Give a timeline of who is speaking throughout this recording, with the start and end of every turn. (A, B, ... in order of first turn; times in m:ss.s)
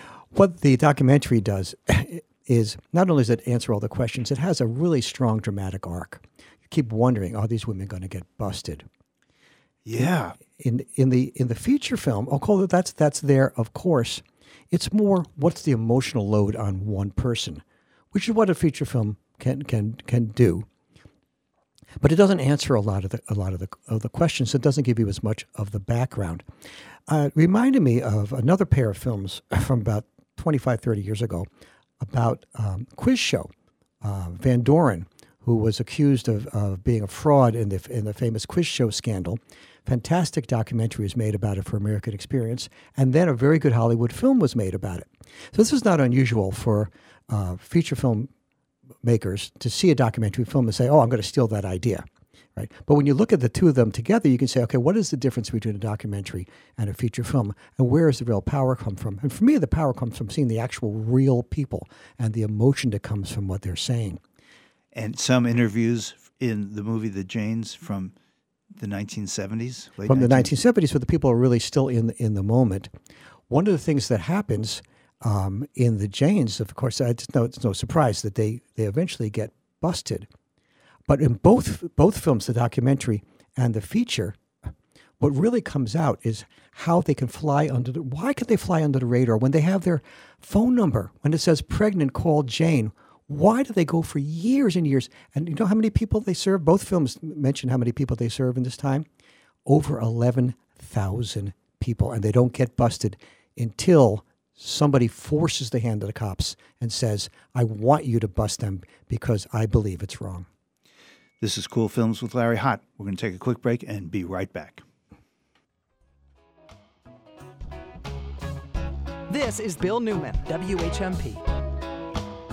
0:00.3-0:08.8 A
0:09.8-0:10.4 B
0:10.0-0:17.6 A
0:18.1-0:20.6 A
0:22.0-0:26.4 A
0:27.1-0:31.5 A
0:32.0-0:33.5 A
0:34.0-0:48.3 A
0:49.0-1:04.2 A
1:04.9-1:08.1 B
1:08.7-1:10.5 B
1:10.1-1:12.9 A
1:13.5-1:20.3 A
1:21.1-1:24.4 A
1:25.2-1:39.0 A
1:39.6-1:50.5 A
1:51.4-1:54.8 B
1:59.3-2:01.4 C